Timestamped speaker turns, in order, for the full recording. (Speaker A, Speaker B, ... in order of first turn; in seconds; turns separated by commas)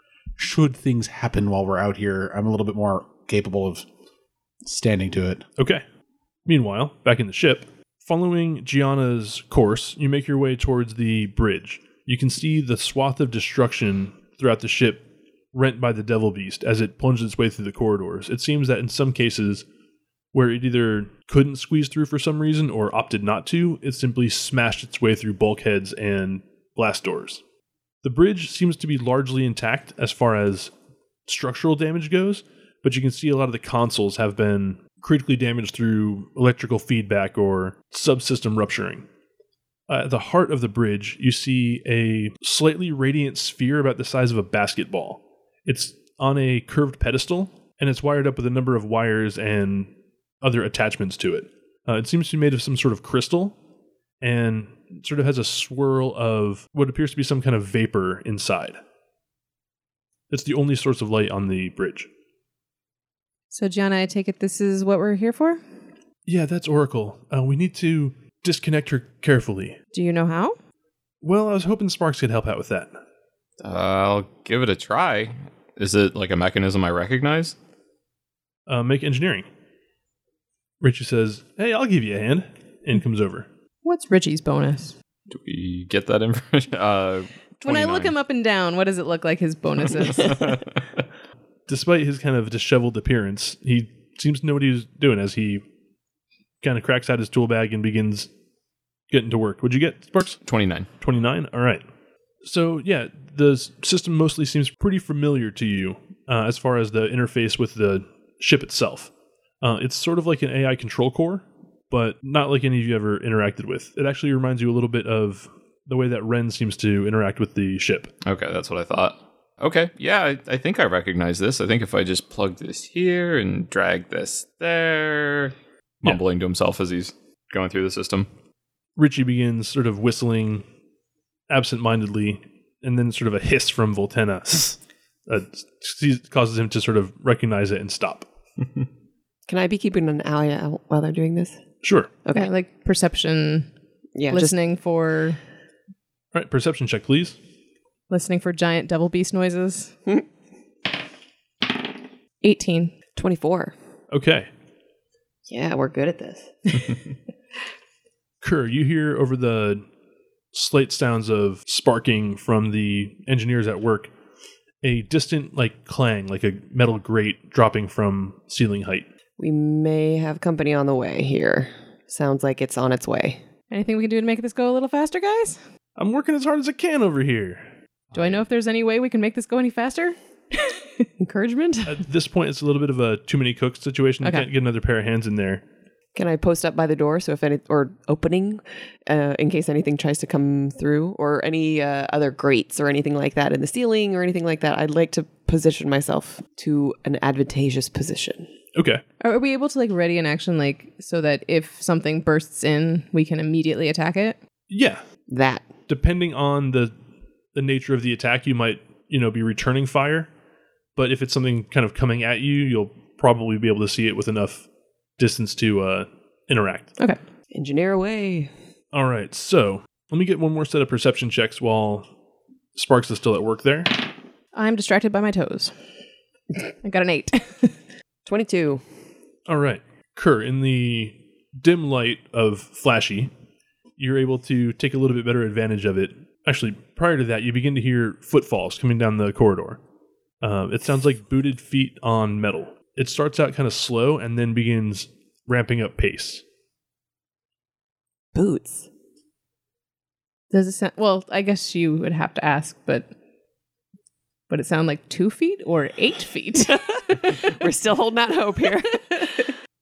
Speaker A: 0.4-3.9, Speaker A: 4.6-5.4, Speaker B: 5.6-5.8, Speaker B: 6.5-19.6, Speaker B: 20.3-27.4, Speaker B: 28.0-30.7, Speaker B: 31.3-39.0, Speaker B: 39.9-49.9, Speaker B: 50.4-53.5, Speaker B: 54.2-58.8, Speaker B: 60.3-62.1, Speaker C: 63.5-65.6, Speaker B: 66.2-69.8, Speaker C: 69.9-70.5, Speaker B: 71.2-72.9, Speaker D: 73.6-77.5, Speaker B: 78.7-79.5, Speaker B: 80.8-83.5, Speaker C: 83.8-84.9, Speaker D: 85.3-88.1, Speaker C: 87.6-90.6, Speaker D: 90.2-90.8, Speaker B: 91.7-95.6, Speaker B: 96.6-98.3, Speaker B: 99.1-100.4, Speaker D: 100.5-100.9, Speaker B: 101.0-101.8, Speaker B: 102.4-109.1, Speaker B: 109.6-118.1, Speaker D: 118.2-128.3, Speaker B: 129.0-130.6, Speaker B: 131.5-138.3, Speaker E: 139.5-141.6, Speaker B: 141.8-142.1, Speaker C: 142.3-143.7, Speaker E: 144.2-144.5, Speaker C: 144.3-145.4, Speaker B: 146.3-147.4, Speaker C: 148.1-149.9, Speaker C: 152.4-152.9, Speaker E: 153.1-153.7, Speaker B: 154.1-154.5, Speaker E: 155.5-156.8, Speaker B: 158.4-159.8, Speaker B: 160.5-164.1, Speaker B: 164.8-169.1, Speaker E: 169.4-173.4, Speaker C: 173.7-175.6, Speaker B: 175.9-177.7, Speaker C: 178.1-181.1, Speaker E: 181.2-182.0, Speaker B: 181.9-185.6, Speaker E: 186.1-198.5, Speaker B: 198.7-199.0, Speaker C: 199.2-204.4, Speaker B: 204.7-205.0, Speaker E: 205.3-205.7, Speaker B: 205.9-206.9, Speaker B: 207.5-210.3, Speaker B: 210.9-214.6, Speaker B: 215.2-216.9, Speaker E: 217.5-218.5, Speaker B: 218.9-222.1, Speaker B: 222.7-224.0, Speaker C: 224.5-225.7, Speaker C: 226.8-227.7, Speaker E: 228.2-228.8, Speaker B: 229.5-233.3, Speaker B: 234.0-239.8, Speaker B: 240.4-246.4, Speaker E: 248.3-248.8, Speaker C: 250.5-253.1, Speaker C: 254.5-257.3, Speaker E: 257.1-259.4